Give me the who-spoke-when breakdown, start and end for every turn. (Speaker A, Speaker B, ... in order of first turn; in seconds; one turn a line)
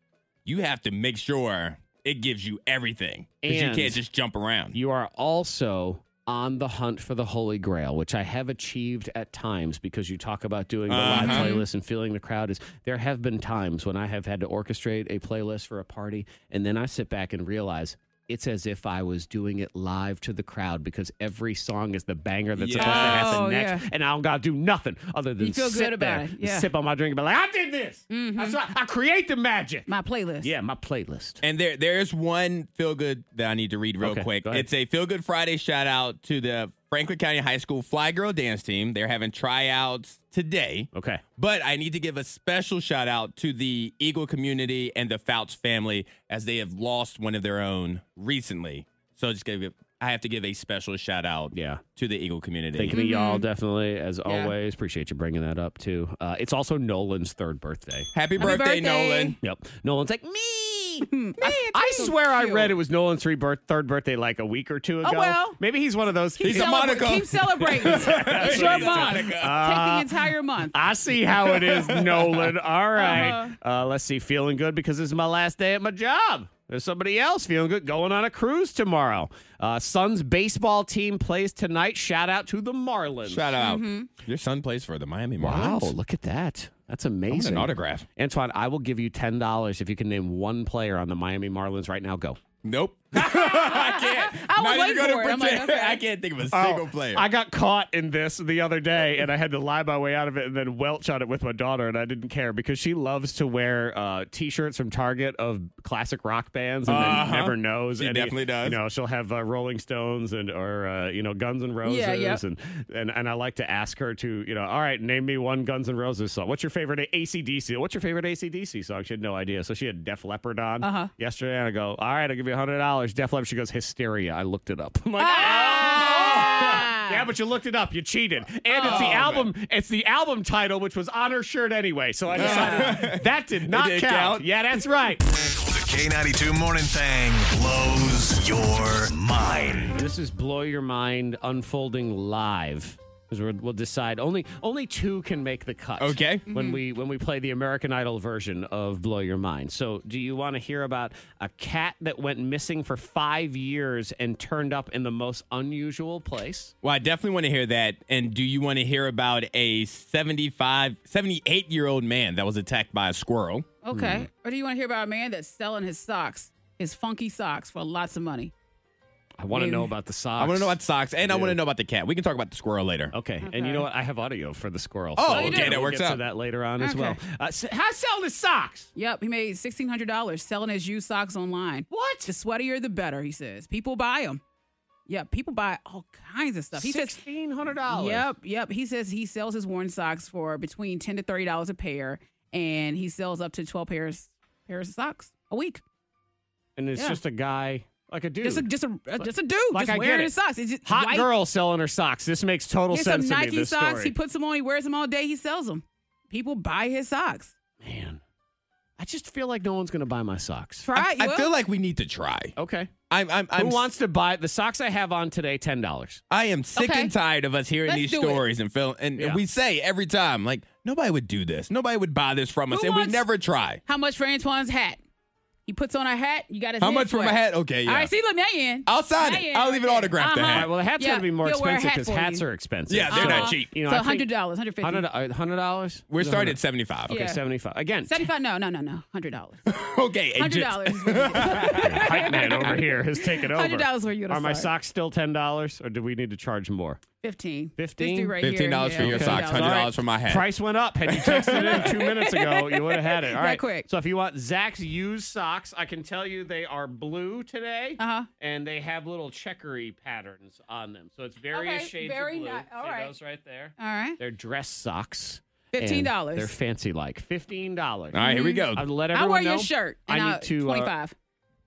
Speaker A: 0.5-4.8
Speaker B: 3.4-4.0
Speaker B: 4.7-29.9
Speaker A: 10.9-11.5
Speaker C: 11.1-11.7
Speaker A: 22.6-23.4
Speaker C: 22.8-23.9
Speaker C: 25.4-26.7
Speaker C: 28.1-28.6
Speaker C: 29.9-30.5
Speaker B: 30.4-31.4
Speaker A: 31.4-53.0
Speaker B: 34.0-34.7
Speaker B: 40.9-41.2
Speaker B: 51.5-51.8
Speaker B: 52.8-58.1
Speaker C: 52.9-53.5
Speaker C: 54.2-54.5
Speaker A: 58.1-59.4
Speaker C: 58.4-59.4
Speaker B: 59.4-66.9
Speaker C: 61.1-62.7
Speaker C: 65.0-65.6
Speaker C: 66.4-70.8
Speaker A: 66.4-69.7
Speaker B: 67.6-83.5
Speaker A: 71.4-72.5
Speaker C: 73.0-73.5
Speaker A: 83.3-86.0
Speaker C: 83.6-84.1
Speaker B: 85.4-92.4
Speaker A: 87.3-88.1
Speaker A: 92.6-97.3
Speaker C: 93.2-96.0
Speaker B: 96.5-135.3
Speaker A: 106.9-108.8
Speaker C: 111.8-112.4
Speaker C: 120.8-121.1
Speaker C: 125.2-127.3
Speaker A: 125.4-126.9
Speaker C: 128.7-129.3
Speaker A: 128.8-129.5
Speaker C: 132.3-133.0
Speaker A: 132.3-134.5
Speaker D: 135.6-140.0
Speaker B: 139.9-156.7
Speaker A: 146.0-146.5
Speaker C: 146.5-146.8
Speaker A: 156.8-163.7
Speaker C: 163.8-168.5
Speaker B: 163.9-164.3
Speaker B: 169.4-171.6
Speaker C: 169.5-169.9
Speaker A: 170.4-173.1
Speaker B: 173.1-178.9
Speaker C: 173.4-173.9
Speaker A: 175.2-176.2
Speaker C: 175.3-175.8
Speaker C: 176.8-177.2
Speaker C: 178.9-184.4
Speaker B: 181.9-182.3
Speaker C: 185.1-187.2
Speaker B: 186.8-188.3
Speaker C: 187.9-195.8
Speaker B: 196.8-198.7
Speaker C: 198.4-201.3
Speaker B: 199.2-204.1
Speaker C: 202.9-207.5
Speaker B: 207.8-208.2
Speaker B: 209.0-210.9
Speaker C: 210.8-211.5
Speaker A: 210.9-212.6
Speaker B: 212.6-212.9
Speaker A: 213.1-213.9
Speaker B: 213.6-216.2
Speaker A: 216.3-223.8
Speaker C: 216.8-217.1
Speaker C: 217.9-218.4
Speaker B: 219.2-219.4
Speaker C: 222.7-223.2
Speaker C: 223.9-225.0
Speaker C: 225.7-232.4
Speaker A: 226.8-228.1
Speaker A: 228.9-230.7
Speaker B: 230.4-234.3
Speaker A: 232.9-233.7
Speaker C: 233.1-235.1
Speaker B: 234.8-238.3
Speaker A: 236.1-237.1
Speaker C: 237.1-237.4
Speaker C: 238.1-239.7
Speaker A: 239.7-242.1
Speaker C: 240.4-244.7
Speaker B: 241.6-247.0
Speaker C: 247.2-249.9
Speaker B: 247.8-248.4
Speaker A: 248.4-250.5
Speaker B: 248.9-268.2
Speaker C: 251.3-253.9
Speaker A: 251.3-251.7
Speaker C: 258.0-258.3
Speaker C: 261.5-263.1
Speaker C: 263.8-264.2
Speaker C: 265.7-266.5
Speaker A: 268.1-268.9
Speaker C: 268.2-271.1
Speaker B: 268.7-270.9